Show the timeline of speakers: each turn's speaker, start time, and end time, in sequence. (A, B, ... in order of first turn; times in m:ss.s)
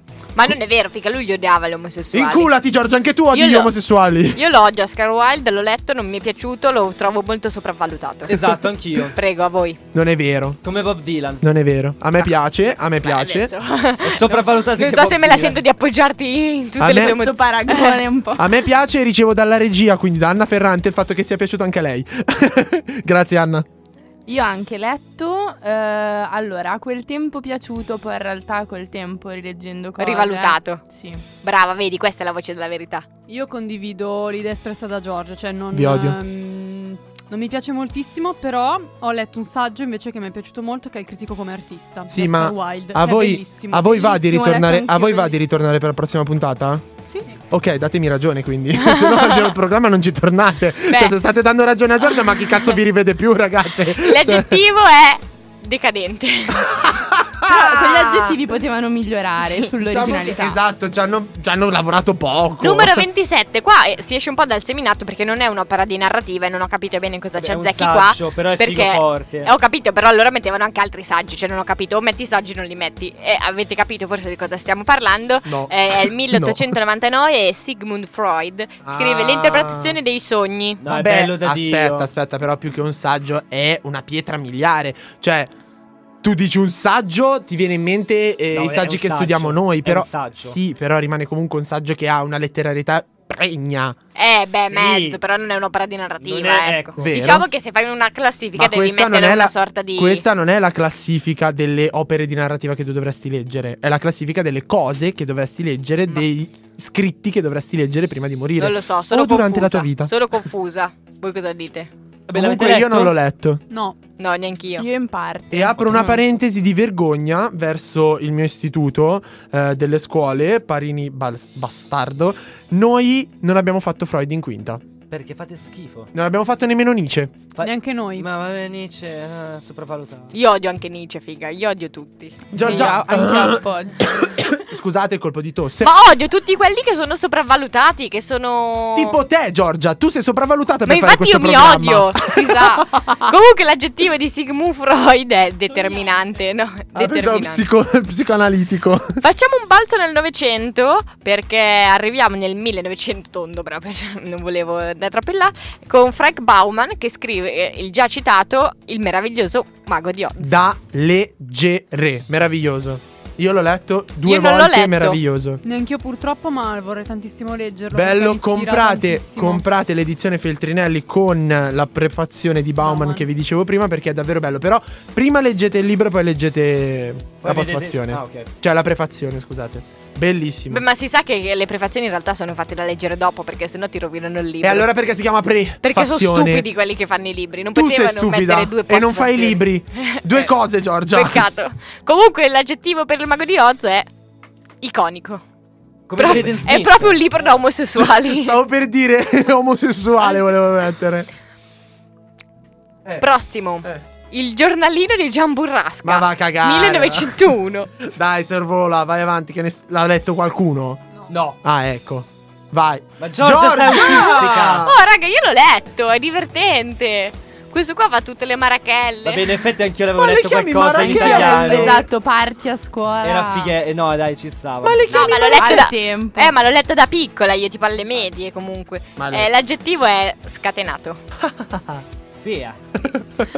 0:00.3-0:02.5 A
0:02.1-0:04.4 B
0:03.3-0:03.7 A
0:04.3-0:08.5 A
0:08.3-0:09.2 C
0:09.1-0:09.8 A
0:09.9-0:10.6 B
0:10.6-0:11.4 C
0:11.4-0:13.5 B
0:12.9-0:18.0 A
0:14.0-0:15.6 C
0:16.8-0:17.2 B
0:17.0-0:18.6 D
0:18.4-0:23.6 B
0:24.3-0:31.2 D
0:30.0-0:30.8 A
0:31.4-0:33.1 A
0:33.3-0:43.9 E
0:35.7-0:36.2 B
0:42.1-0:46.9 B
0:43.9-0:45.4 D
0:47.1-0:47.4 E
0:47.5-0:54.6 B
0:48.8-0:49.5 A
0:50.9-0:51.2 A
0:54.0-0:56.9 A
0:56.7-0:58.4 B
0:57.4-1:00.6 D
0:59.8-1:03.0 B
1:02.6-1:20.8 A
1:07.4-1:09.5 C
1:15.4-1:16.7 B
1:18.8-1:20.0 B
1:20.8-1:22.1 C
1:20.9-1:25.5 B
1:26.2-1:34.0 B
1:28.5-1:30.6 C
1:34.1-1:40.2 A
1:34.4-1:35.2 C
1:36.2-1:37.1 C
1:37.0-1:37.4 B
1:38.6-1:50.1 B
1:48.6-1:51.9 A
1:52.3-1:53.2 C
1:52.3-1:53.6 B
1:53.7-1:54.0 E
1:54.2-1:54.9 A
1:54.8-1:56.2 D
1:55.5-2:04.8 B
2:05.1-2:06.1 C
2:06.1-2:07.4 B
2:07.6-2:10.3 C
2:07.6-2:08.3 E
2:10.3-2:12.5 A
2:12.5-2:15.9 B
2:12.5-2:14.3 D
2:15.8-2:19.2 A
2:18.9-2:23.2 B
2:20.8-2:27.6 A
2:26.9-2:29.2 B
2:29.2-2:40.6 A
2:40.4-2:45.6 B
2:44.2-2:45.2 A
2:45.6-2:49.6 E
2:47.9-3:00.8 B
2:52.8-2:53.2 E
2:57.4-2:58.5 C
3:00.7-3:04.9 A
3:04.6-3:06.6 B
3:05.8-3:10.5 A
3:07.7-3:11.4 B
3:11.1-3:14.1 A
3:14.8-3:15.4 A
3:16.1-3:17.2 C
3:16.2-3:18.6 A
3:16.2-3:16.6 B
3:17.9-3:21.3 B
3:23.2-3:27.9 A
3:26.0-3:31.0 B
3:31.3-3:31.6 C
3:31.6-3:34.9 B
3:33.2-3:34.9 C
3:34.0-3:39.4 A
3:39.2-3:42.0 C
3:40.1-3:42.0 B
3:40.9-3:43.7 D
3:43.2-3:45.1 C
3:44.8-3:45.9 B
3:45.1-3:51.2 A
3:45.5-3:46.5 D
3:49.2-3:49.5 B
3:51.4-3:52.0 B
3:52.4-3:52.8 C
3:53.1-3:53.4 B